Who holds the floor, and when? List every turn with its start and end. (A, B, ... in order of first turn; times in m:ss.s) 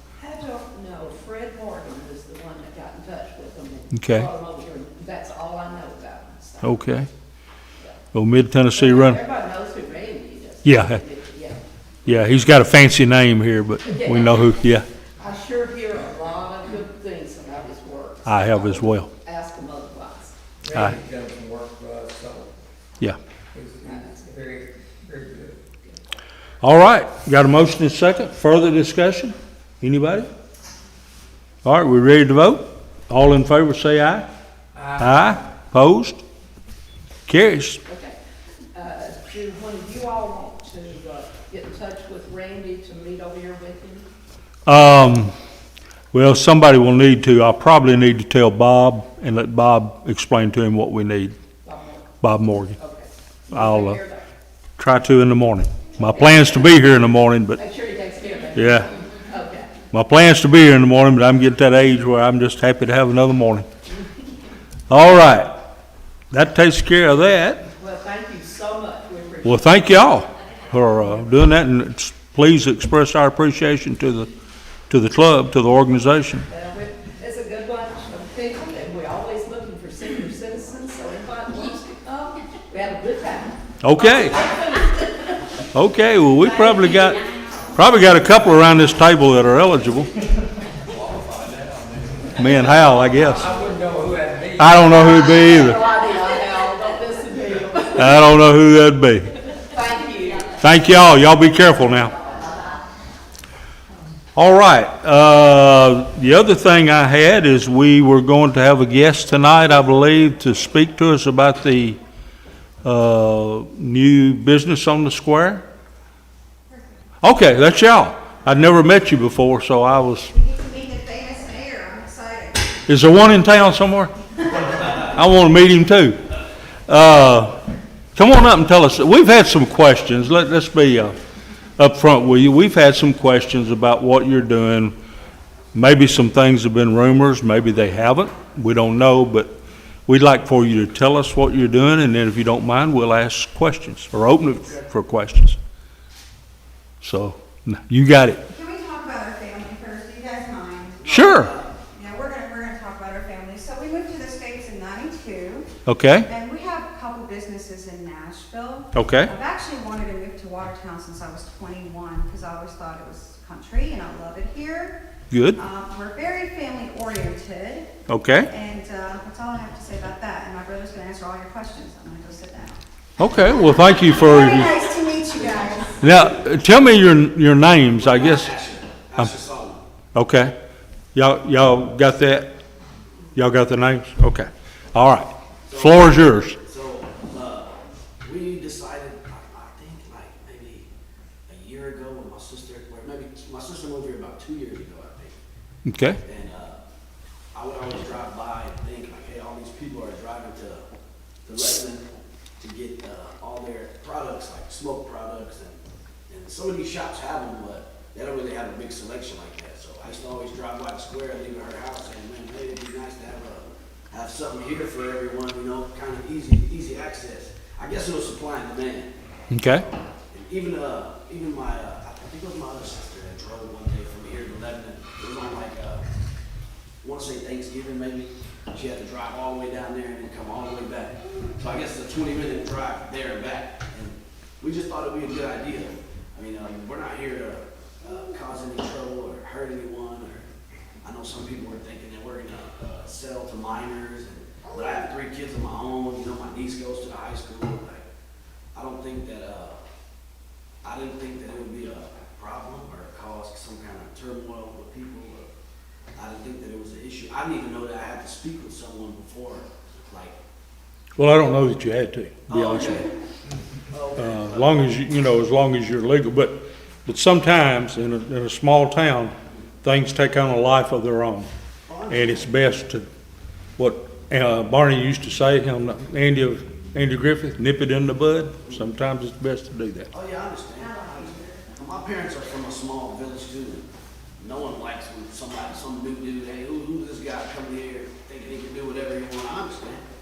0:00.2-0:06.8 A
0:04.0-0:04.3 B
0:06.6-0:07.1 B
0:08.1-0:09.2 B
0:08.7-0:11.6 A
0:10.6-0:11.0 B
0:12.1-0:14.9 B
0:13.8-0:14.6 A
0:15.2-0:20.4 A
0:18.3-0:19.1 B
0:20.6-0:22.5 C
0:23.5-0:25.6 C
0:23.8-0:24.3 A
0:26.6-0:30.3 B
0:31.6-0:34.3 B
0:34.8-0:35.2 C
0:35.0-0:36.2 B
0:37.3-0:37.8 B
0:37.8-0:38.2 A
0:38.7-0:44.1 A
0:44.7-0:45.3 B
0:46.1-0:51.4 B
0:51.6-0:52.1 A
0:52.2-0:52.8 B
0:52.8-0:54.3 A
0:53.5-0:54.0 B
0:54.8-0:57.6 B
0:56.1-0:56.8 A
0:57.6-0:59.7 A
0:58.6-0:58.9 B
0:59.9-1:03.7 B
1:04.9-1:05.6 B
1:06.3-1:07.7 B
1:07.7-1:09.9 A
1:09.4-1:14.3 B
1:14.9-1:16.5 B
1:16.5-1:25.6 A
1:23.8-1:24.4 B
1:25.7-1:27.2 B
1:26.7-1:27.3 A
1:27.7-1:30.2 B
1:30.9-1:32.2 D
1:32.4-1:33.6 B
1:33.4-1:35.0 C
1:34.6-1:35.8 B
1:35.1-1:38.3 A
1:38.0-1:39.4 B
1:39.6-1:40.6 A
1:40.6-1:42.2 B
1:42.0-1:42.7 A
1:44.4-1:52.0 B
1:52.8-1:55.6 B
1:57.2-2:00.3 B
2:00.3-2:02.8 E
2:02.9-2:04.1 B
2:04.9-2:06.2 B
2:06.9-2:07.6 B
2:08.2-2:11.2 B
2:11.8-2:15.0 B
2:15.7-2:19.5 B
2:20.1-2:25.6 B
2:27.0-2:28.4 B
2:28.5-2:31.1 E
2:31.0-2:31.8 D
2:31.1-2:31.5 B
2:31.9-2:35.7 E
2:35.9-2:36.3 B
2:36.3-2:45.0 E
2:38.9-2:39.3 B
2:45.3-2:45.6 B
2:45.6-2:47.9 E
2:48.1-2:48.5 B
2:48.5-2:52.8 E
2:53.2-2:54.7 B
2:53.6-2:56.0 E
2:56.0-2:58.5 B
2:57.9-2:59.8 D
3:00.2-3:00.6 B
3:01.1-3:02.6 B
3:03.4-3:06.6 B
3:05.7-3:10.9 D
3:11.5-3:15.4 D
3:15.8-3:16.2 B
3:16.2-3:16.8 D
3:17.5-3:20.8 D
3:21.4-3:22.1 D
3:22.6-3:25.8 D
3:26.3-3:39.1 D
3:39.5-3:39.8 B
3:39.7-3:46.0 D
3:47.0-4:00.4 D
4:01.0-4:08.1 D
4:08.7-4:09.8 D
4:10.8-4:15.5 D
4:16.2-4:20.4 D
4:21.2-4:23.1 B
4:22.5-4:23.1 D
4:23.9-4:25.0 D
4:24.2-4:31.5 B
4:31.9-4:32.5 D
4:32.1-4:33.1 B
4:33.8-4:40.1 B
4:40.1-4:43.9 D
4:40.8-4:41.7 E
4:44.4-4:50.0 D